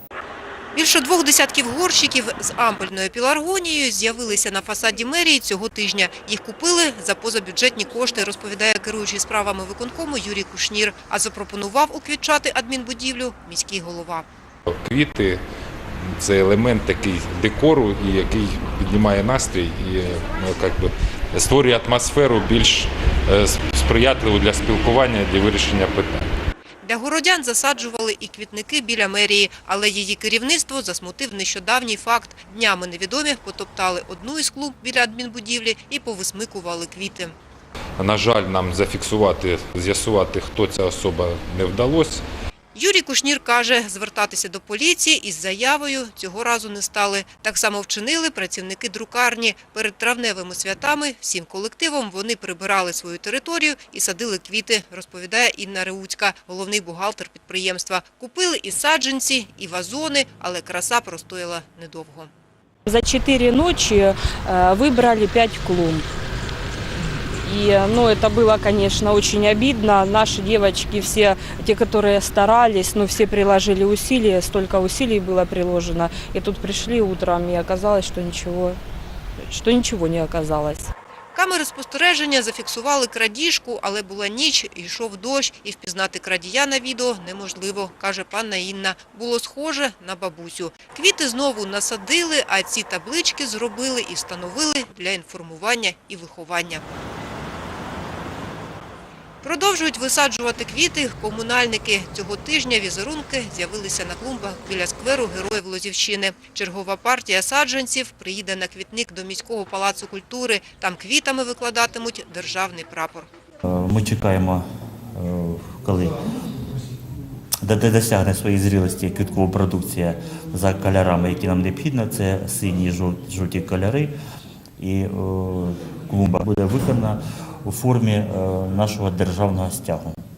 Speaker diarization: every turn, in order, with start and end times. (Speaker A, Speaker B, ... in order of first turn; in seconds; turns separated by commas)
Speaker A: 0.7-14.3, Speaker B: 14.7-15.4, Speaker B: 16.2-26.3, Speaker A: 26.8-37.3, Speaker B: 38.0-42.2, Speaker A: 42.8-62.3, Speaker C: 62.9-66.1, Speaker C: 67.4-78.8, Speaker C: 79.4-80.9, Speaker A: 81.3-96.8, Speaker A: 99.4-113.3, Speaker D: 113.7-116.2, Speaker D: 117.6-124.1, Speaker D: 124.8-130.2